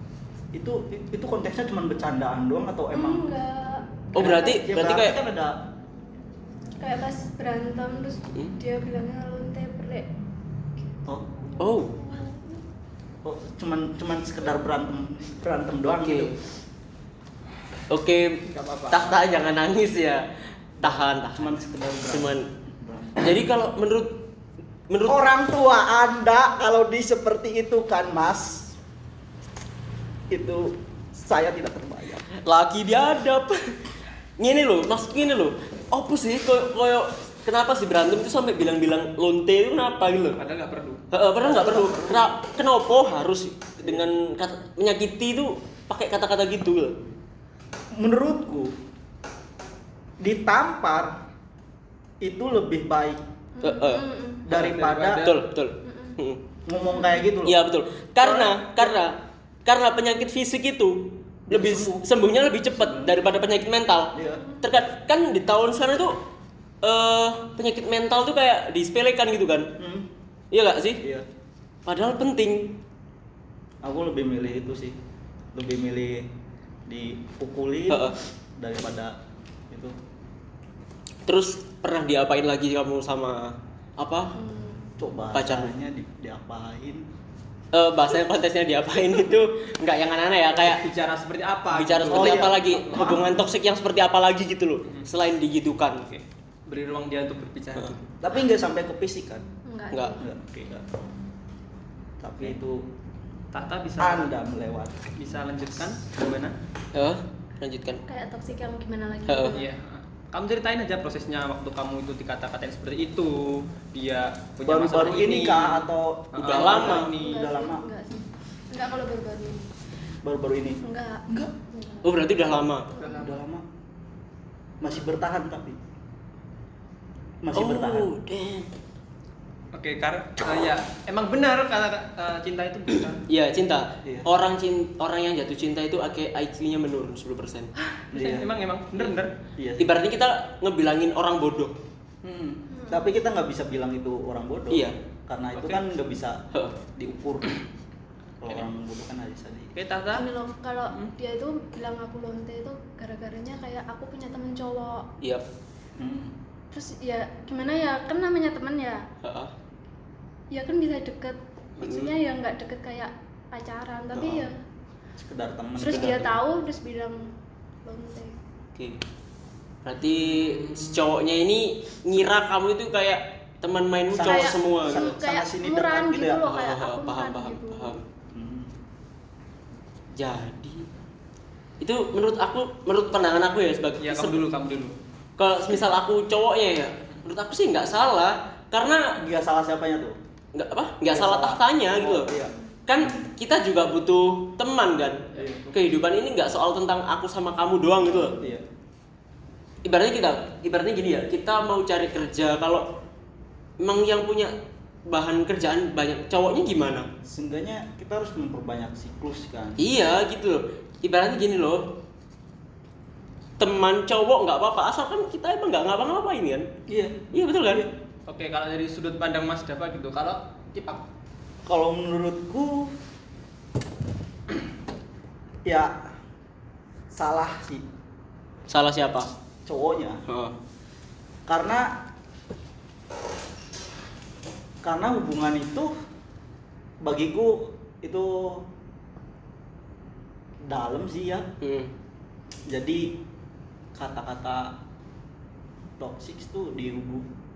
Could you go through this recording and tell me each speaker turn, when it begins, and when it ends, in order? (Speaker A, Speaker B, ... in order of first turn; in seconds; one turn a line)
Speaker A: 0.5-3.3
Speaker B: 2.9-4.6
Speaker C: 4.1-5.2
Speaker A: 4.1-5.5
Speaker B: 6.8-10.1
Speaker A: 11.1-11.5
Speaker C: 11.6-11.9
Speaker B: 11.7-12.6
Speaker A: 13.2-16.3
Speaker C: 16.0-16.3
Speaker C: 17.9-20.2
Speaker D: 18.5-19.2
Speaker C: 20.8-21.5
Speaker A: 20.8-23.3
Speaker C: 22.1-22.5
Speaker C: 23.2-24.2
Speaker C: 24.9-25.2
Speaker A: 25.1-28.8
Speaker A: 30.3-32.3
Speaker C: 32.3-33.7
Speaker C: 34.4-40.4
Speaker D: 40.4-41.0
Speaker C: 41.1-47.0
Speaker A: 41.4-42.3
Speaker A: 47.9-48.7
Speaker A: 50.2-51.2
Speaker A: 52.2-53.2
Speaker B: 53.6-54.4
Speaker C: 53.6-56.4
Speaker A: 54.4-55.3
Speaker D: 54.5-55.3
Speaker B: 55.8-56.2
Speaker A: 56.6-57.6
Speaker B: 56.9-57.2
Speaker C: 57.4-66.2
Speaker A: 58.2-59.0
Speaker A: 61.5-62.1
Speaker A: 62.7-63.2
Speaker A: 64.1-64.4
Speaker B: 64.3-64.6
Speaker C: 66.8-69.7
Speaker A: 69.8-70.1
Speaker C: 70.5-71.0
Speaker A: 71.0-71.3
Speaker C: 71.8-72.8
Speaker A: 73.8-75.0
Speaker A: 75.5-76.3
Speaker A: 76.9-79.2
Speaker C: 77.9-78.2
Speaker A: 79.7-79.9
Speaker C: 81.2-84.3
Speaker B: 84.3-84.8
Speaker A: 85.0-87.1
Speaker C: 85.3-85.7
Speaker C: 87.7-90.8
Speaker D: 90.5-93.2
Speaker C: 91.7-96.0
Speaker A: 92.0-93.4
Speaker D: 96.0-98.0
Speaker A: 98.2-99.4
Speaker B: 99.7-100.2
Speaker A: 100.2-100.8
Speaker A: 102.2-102.9
Speaker D: 103.5-104.3
Speaker A: 104.0-105.0
Speaker D: 105.2-106.5
Speaker C: 106.9-108.0
Speaker B: 108.1-109.7
Speaker C: 109.3-109.6
Speaker D: 109.5-117.4
Speaker A: 114.7-117.8
Speaker C: 116.4-117.1
Speaker B: 117.0-119.7
Speaker A: 120.2-121.5
Speaker B: 120.7-123.4
Speaker C: 122.0-122.9
Speaker D: 123.0-123.4
Speaker A: 123.1-123.6
Speaker A: 124.8-125.8
Speaker A: 127.4-128.1
Speaker C: 127.5-128.7
Speaker D: 129.7-133.2
Speaker C: 133.3-137.7
Speaker D: 137.8-139.3
Speaker A: 138.1-138.5
Speaker A: 139.6-139.9
Speaker C: 139.8-141.7
Speaker A: 142.2-146.4
Speaker B: 142.7-143.1
Speaker C: 144.7-144.9
Speaker D: 145.5-145.8
Speaker C: 146.5-146.8
Speaker A: 146.9-147.5
Speaker A: 148.4-149.7
Speaker D: 149.7-150.3
Speaker B: 150.1-155.1
Speaker A: 156.0-156.3
Speaker B: 156.7-159.0
Speaker C: 159.2-159.5
Speaker B: 160.5-164.5
Speaker C: 161.8-162.1
Speaker A: 165.2-166.3
Speaker B: 165.8-167.3
Speaker C: 165.9-166.3
Speaker B: 167.8-168.3
Speaker C: 168.7-169.0
Speaker C: 169.8-175.2
Speaker D: 170.5-170.8
Speaker A: 174.1-176.4
Speaker B: 174.2-177.9
Speaker C: 176.4-178.0
Speaker A: 178.3-178.7
Speaker C: 180.1-180.9
Speaker C: 181.8-184.4
Speaker D: 184.0-184.9
Speaker C: 185.4-189.1
Speaker A: 189.2-190.2
Speaker C: 190.5-192.3
Speaker A: 191.1-193.3
Speaker C: 192.9-198.4
Speaker A: 195.3-195.7
Speaker A: 198.4-198.6
Speaker C: 199.8-202.9
Speaker C: 203.8-204.5
Speaker C: 205.1-207.1
Speaker A: 207.2-209.8
Speaker C: 209.8-211.9
Speaker C: 213.6-216.7
Speaker A: 216.9-217.9
Speaker C: 217.3-217.8
Speaker D: 218.3-221.0
Speaker A: 221.7-222.9
Speaker A: 225.6-225.9
Speaker A: 227.1-227.8
Speaker C: 228.7-229.3
Speaker A: 229.7-230.2
Speaker C: 230.3-230.6
Speaker A: 231.5-231.9
Speaker A: 234.8-235.9
Speaker A: 237.0-238.6
Speaker A: 240.7-241.5
Speaker C: 241.6-241.9
Speaker A: 242.7-243.1
Speaker A: 243.9-244.7
Speaker A: 246.0-247.3